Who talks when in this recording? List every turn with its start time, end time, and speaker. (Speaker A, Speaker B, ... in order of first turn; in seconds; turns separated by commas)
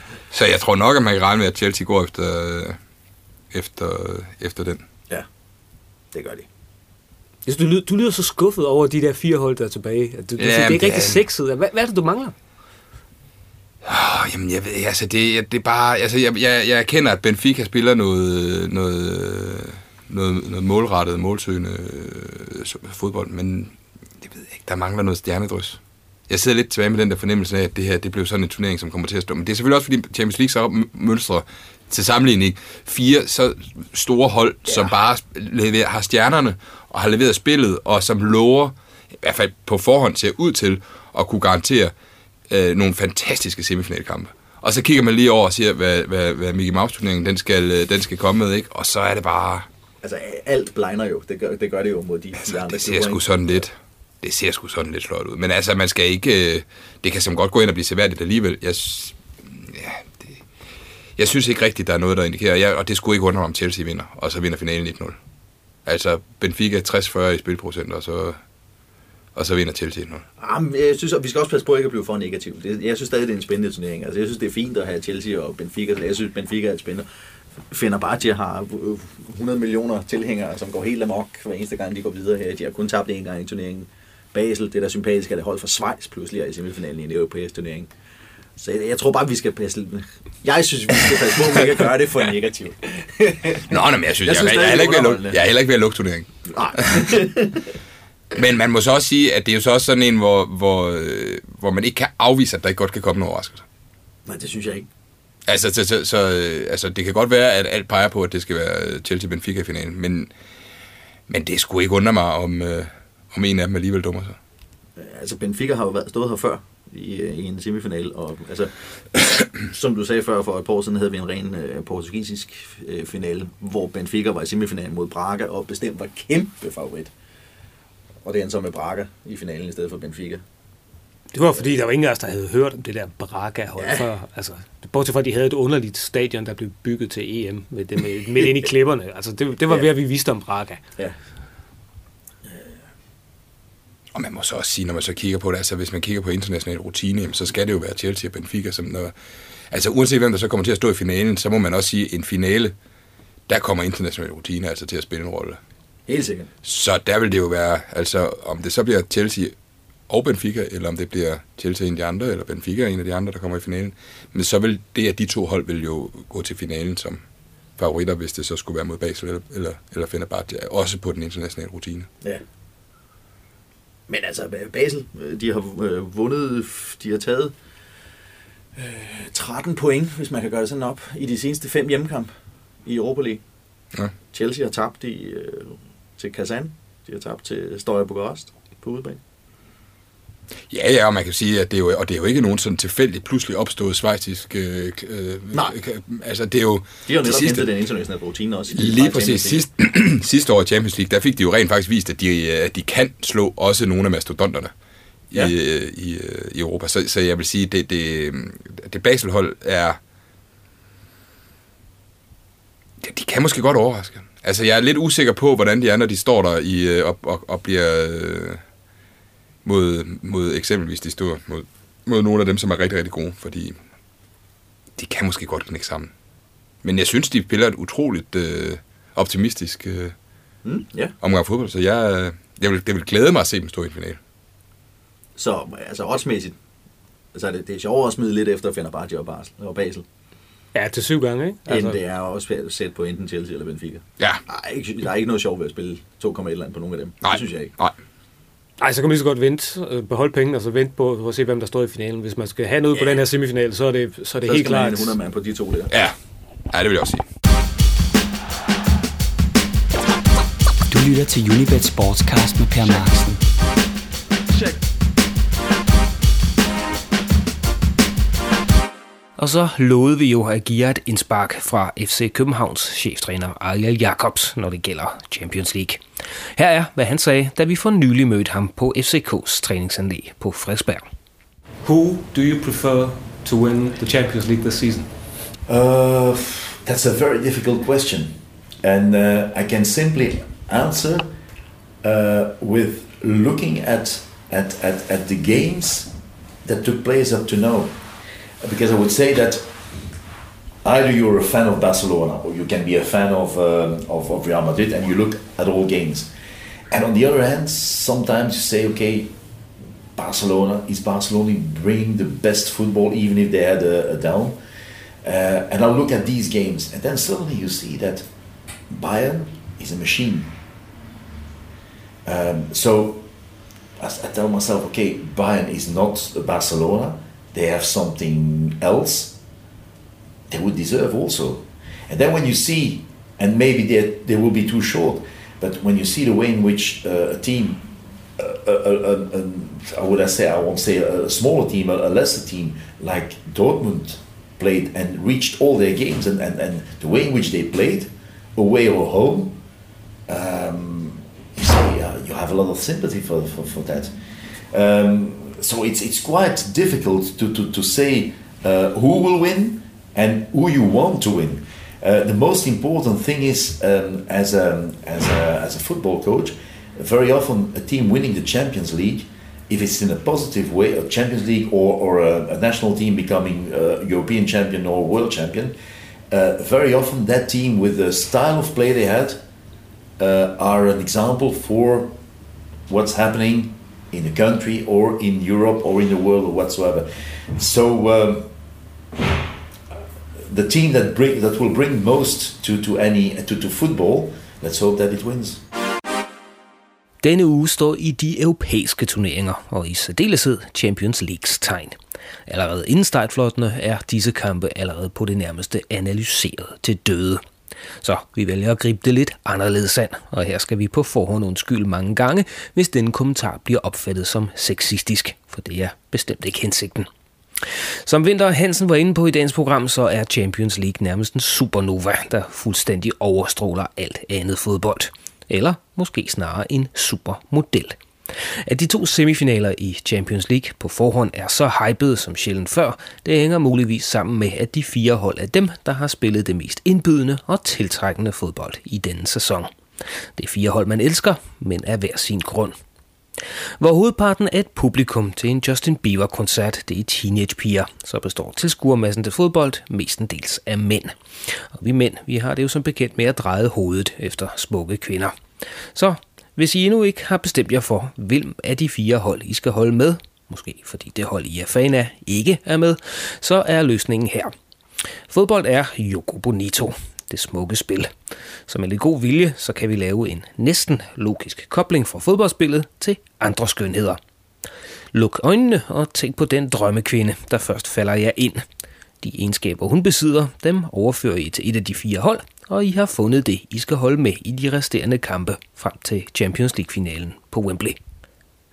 Speaker A: 0.3-2.8, Speaker A: 3.5-4.8, Speaker B: 6.1-6.5, Speaker C: 7.5-12.3, Speaker A: 10.4-11.2, Speaker A: 13.8-41.9, Speaker A: 42.5-49.7, Speaker B: 50.0-53.2, Speaker A: 52.4-60.1, Speaker A: 61.2-65.2, Speaker A: 65.8-68.4, Speaker A: 69.3-70.2, Speaker B: 70.4-77.1, Speaker B: 77.7-87.9, Speaker B: 88.6-95.4, Speaker A: 93.7-97.1, Speaker B: 96.5-97.7, Speaker A: 98.3-103.7, Speaker B: 104.3-104.9, Speaker A: 105.5-110.3, Speaker A: 111.3-114.4, Speaker B: 115.0-127.1, Speaker B: 128.2-130.4, Speaker C: 131.3-140.8, Speaker B: 133.8-134.0, Speaker A: 144.1-149.1, Speaker A: 149.7-152.8, Speaker A: 153.5-155.6, Speaker B: 156.1-156.5, Speaker A: 156.6-159.6, Speaker A: 160.1-167.2, Speaker A: 167.8-172.1, Speaker B: 174.1-177.5, Speaker B: 178.8-182.3, Speaker B: 182.8-183.4, Speaker B: 184.3-189.2, Speaker A: 190.7-197.7, Speaker B: 197.1-199.7, Speaker A: 198.7-204.7, Speaker A: 205.3-210.0, Speaker A: 213.0-218.6, Speaker A: 219.6-223.8, Speaker A: 225.0-226.1, Speaker A: 226.8-230.2, Speaker B: 230.6-231.1, Speaker A: 231.2-234.2, Speaker B: 235.4-236.6, Speaker B: 237.3-240.1, Speaker C: 240.7-242.0, Speaker B: 241.7-247.7, Speaker A: 247.2-247.9, Speaker C: 248.8-255.1, Speaker B: 254.4-255.9, Speaker A: 255.9-256.1, Speaker A: 256.7-257.2, Speaker D: 260.9-263.4, Speaker E: 269.4-276.0, Speaker E: 276.6-281.1, Speaker C: 281.8-285.1, Speaker F: 285.7-291.4, Speaker F: 292.0-296.1, Speaker F: 296.6-298.0, Speaker F: 298.6-299.7, Speaker F: 300.8-306.3, Speaker F: 306.9-309.3, Speaker F: 310.2-314.6, Speaker F: 315.2-318.3, Speaker F: 318.9-320.6, Speaker F: 322.3-323.2, Speaker F: 324.0-329.4, Speaker F: 330.5-349.6, Speaker F: 350.3-375.8, Speaker F: 376.3-379.4, Speaker F: 380.2-382.1, Speaker F: 382.9-388.5, Speaker F: 390.4-395.6, Speaker E: 397.2-407.4, Speaker E: 408.0-417.1, Speaker E: 417.6-439.7, Speaker E: 440.4-442.8, Speaker E: 443.8-464.5, Speaker E: 465.3-468.1, Speaker E: 468.7-474.2, Speaker E: 475.1-478.6, Speaker E: 479.2-488.0